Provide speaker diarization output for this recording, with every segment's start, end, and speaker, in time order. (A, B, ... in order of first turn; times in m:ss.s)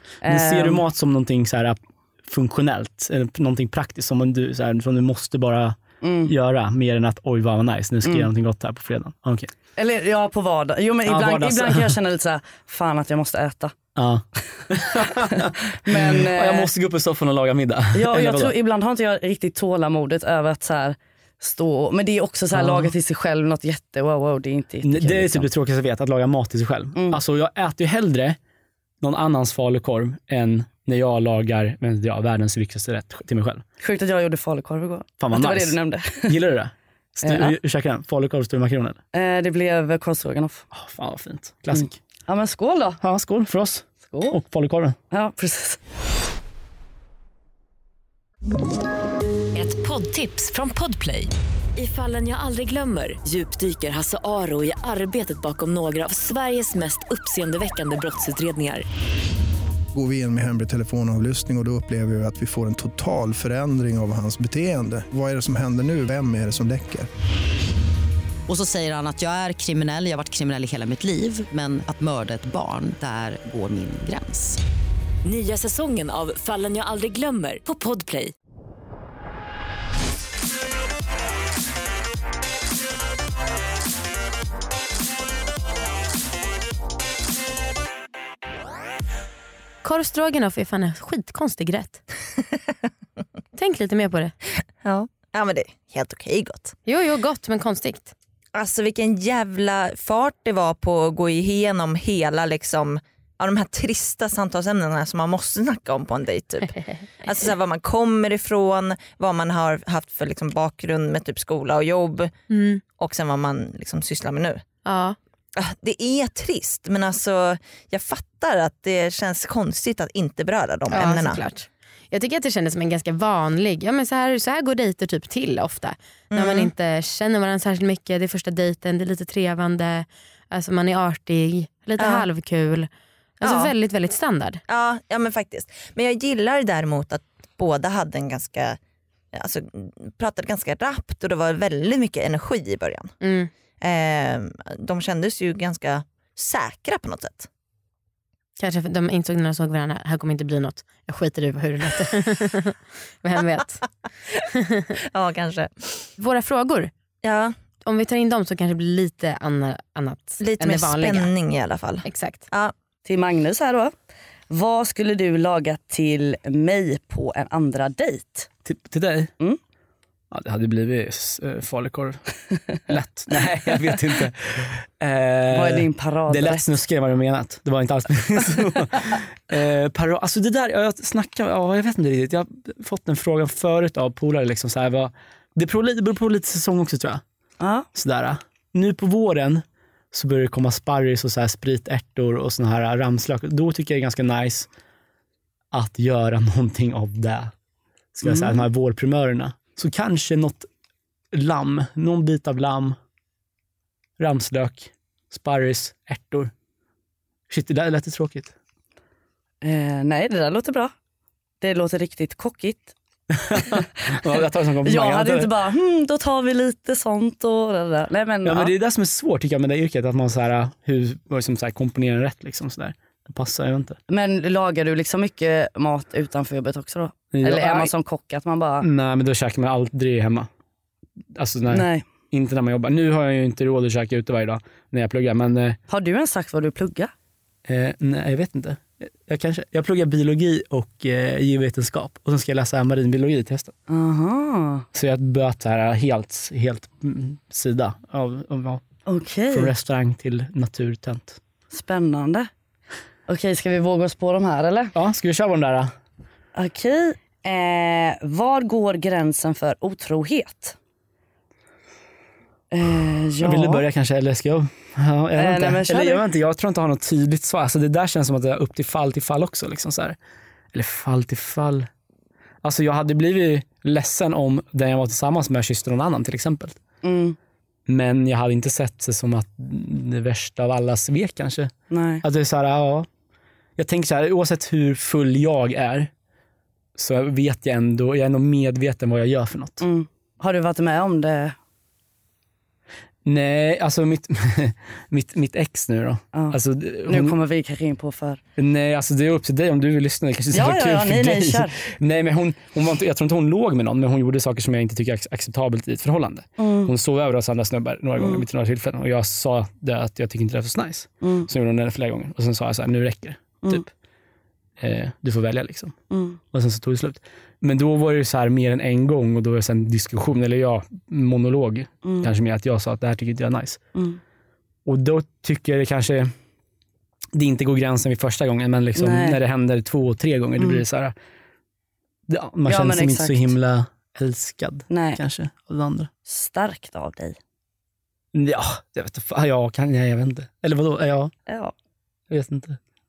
0:00.2-0:00.8 A
0:00.2-0:09.5 B
0:06.0-0:06.3 A
0:09.8-0:13.7 A
0:11.0-0:12.0 B
0:14.0-0:18.5 B
0:15.3-0:16.7 A
0:17.9-0:25.4 A
0:22.5-0:22.9 B
0:24.8-0:28.4 B
0:26.9-0:27.2 A
0:29.0-0:33.6 B
0:33.8-0:36.4 A
0:35.2-0:39.0 B
0:37.2-0:37.6 A
0:39.1-0:40.6 A
0:40.7-0:41.9 B
0:41.7-0:43.0 A
0:43.0-0:45.0 B
0:44.1-0:44.4 A
0:45.1-0:45.8 A
0:49.5-0:58.8 C
0:59.9-1:07.1 D
1:08.5-1:14.6 E
1:15.2-1:18.3 C
1:29.8-1:32.0 F
1:33.5-1:34.3 F
1:34.8-1:36.7 G
1:36.8-1:38.1 F
1:38.5-1:52.3 G
1:52.5-1:52.8 F
1:53.0-1:54.6 G
1:54.8-1:55.2 F
1:55.6-2:01.4 G
2:00.9-2:12.9 F
2:06.3-2:06.7 G
2:12.0-2:12.3 G
2:13.4-2:13.7 G
2:13.4-2:14.6 F
2:14.7-2:18.8 G
2:19.3-2:23.1 G
2:23.2-2:23.5 F
2:23.8-2:27.5 G
2:28.6-2:33.8 F
2:34.5-2:34.8 F
2:35.1-2:36.1 G
2:36.2-2:36.9 F
2:37.2-2:37.5 G
2:37.8-2:41.3 F
2:40.4-2:42.7 G
2:42.0-2:42.4 F
2:43.0-2:43.9 A
2:44.5-2:48.5 A
2:48.6-2:49.3 B
2:50.3-2:52.2 B
2:52.9-3:07.2 B
2:55.5-2:56.7 A
3:07.6-3:07.9 A
3:07.9-3:14.7 B
3:15.7-3:17.5 B
3:18.1-3:20.7 B
3:18.2-3:18.6 A
3:21.3-3:23.0 B
3:24.2-3:26.5 B
3:27.5-3:28.5 B
3:29.6-3:30.9 A
3:31.6-3:32.9 A
3:33.3-3:35.5 B
3:33.6-3:38.7 A
3:38.4-3:44.0 B
3:44.1-3:48.9 A
3:47.3-3:47.9 B
3:48.8-3:50.5 B
3:51.3-3:55.8 B
3:51.7-3:52.0 A
3:55.9-3:57.1 A
3:57.6-4:03.7 B
4:03.9-4:04.9 A
4:04.9-4:08.8 B
4:09.0-4:09.7 A
4:09.5-4:11.4 B
4:11.7-4:12.5 A
4:13.3-4:14.9 A
4:14.9-4:15.9 B
4:16.5-4:20.8 A
4:22.7-4:23.8 A
4:23.4-4:30.2 B
4:25.4-4:26.2 A
4:30.7-4:31.9 B
4:32.6-4:36.8 B
4:37.0-4:37.4 A
4:37.9-4:43.1 B
4:41.9-4:42.2 A
4:43.8-4:46.1 B
4:47.0-4:49.8 B
4:49.8-4:51.6 A
4:53.2-4:57.4 B
4:56.3-4:58.4 A
4:58.6-5:13.8 B
5:00.5-5:01.8 A
5:06.6-5:06.9 A
5:08.2-5:08.4 A
5:11.2-5:11.5 A
5:14.8-5:16.0 B
5:16.1-5:16.4 A
5:16.5-5:23.8 B
5:22.0-5:22.3 A
5:23.9-5:24.2 A
5:24.9-5:26.3 B
5:27.3-5:31.1 B
5:29.0-5:29.4 A
5:32.3-5:36.1 B
5:32.6-5:33.5 A
5:34.9-5:35.2 A
5:36.3-5:37.4 A
5:38.3-5:41.3 B
5:41.5-5:41.7 A
5:42.3-5:42.8 B